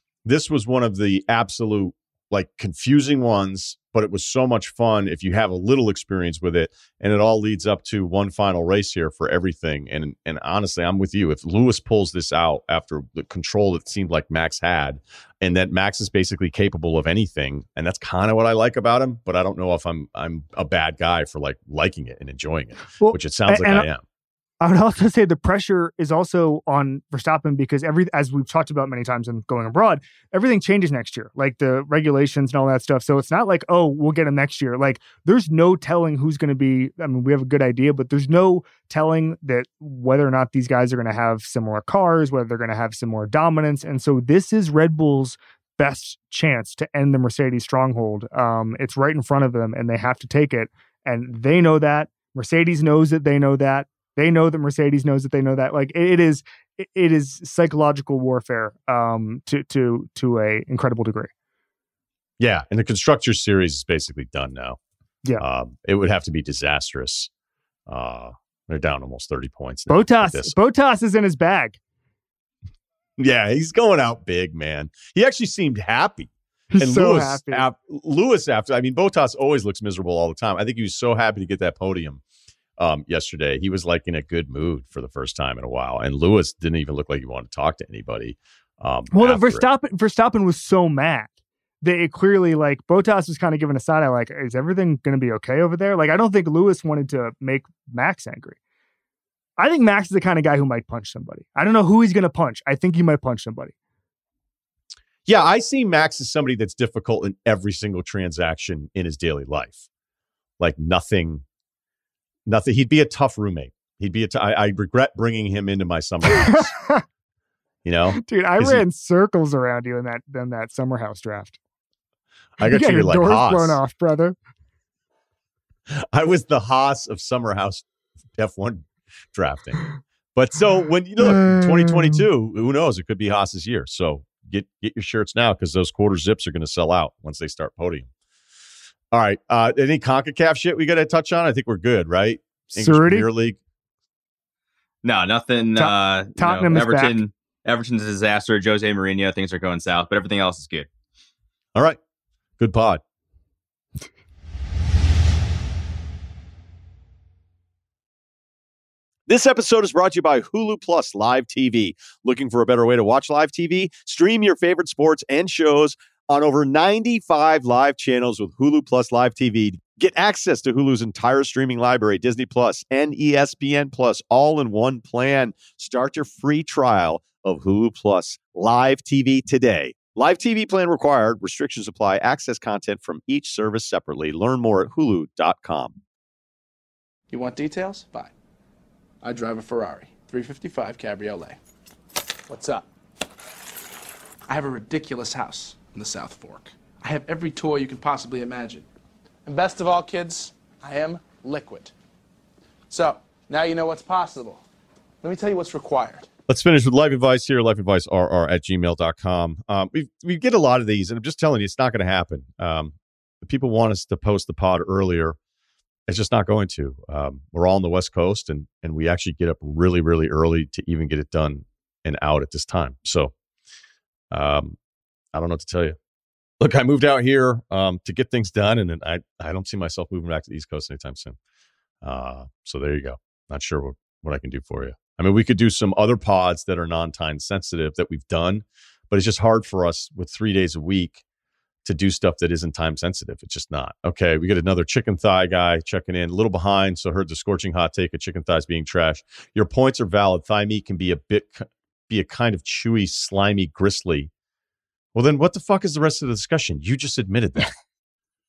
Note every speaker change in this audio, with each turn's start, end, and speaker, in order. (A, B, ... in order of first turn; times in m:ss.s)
0:00.2-0:24.0 A
0:23.0-0:23.9 B
0:24.6-1:01.3 B
1:02.4-1:04.8 A
1:05.4-1:07.3 A
1:07.9-1:10.5 A
1:09.9-1:11.8 B
1:13.2-1:22.2 A
1:16.7-1:17.6 B
1:22.8-1:29.6 A
1:29.1-1:31.3 B
1:31.8-1:38.6 B
1:39.6-1:43.7 B
1:45.2-1:49.8 A
1:50.6-1:51.4 A
1:52.4-1:56.8 A
1:56.3-1:57.0 B
1:57.8-1:58.8 A
1:58.2-2:01.6 B
2:02.6-2:03.8 A
2:02.6-2:04.4 B
2:05.9-2:07.8 A
2:08.4-2:18.1 A
2:11.2-2:12.2 B
2:19.1-2:23.6 A
2:22.7-2:23.3 B
2:25.0-2:30.9 C
2:25.8-2:27.2 B
2:32.6-2:33.0 A
2:39.3-3:06.0 A
3:07.3-3:08.3 D
3:09.2-3:11.6 D
3:12.5-3:12.8 D
3:14.5-3:18.9 D
3:19.4-3:21.9 D
3:22.9-3:24.6 D
3:25.2-3:26.3 D
3:26.5-3:35.4 A
3:36.1-3:43.3 A
3:44.3-3:44.8 A
3:45.3-3:46.0 A
3:46.6-3:51.4 A
3:52.0-4:01.2 A
4:01.8-4:14.3 A
4:15.1-4:17.7 A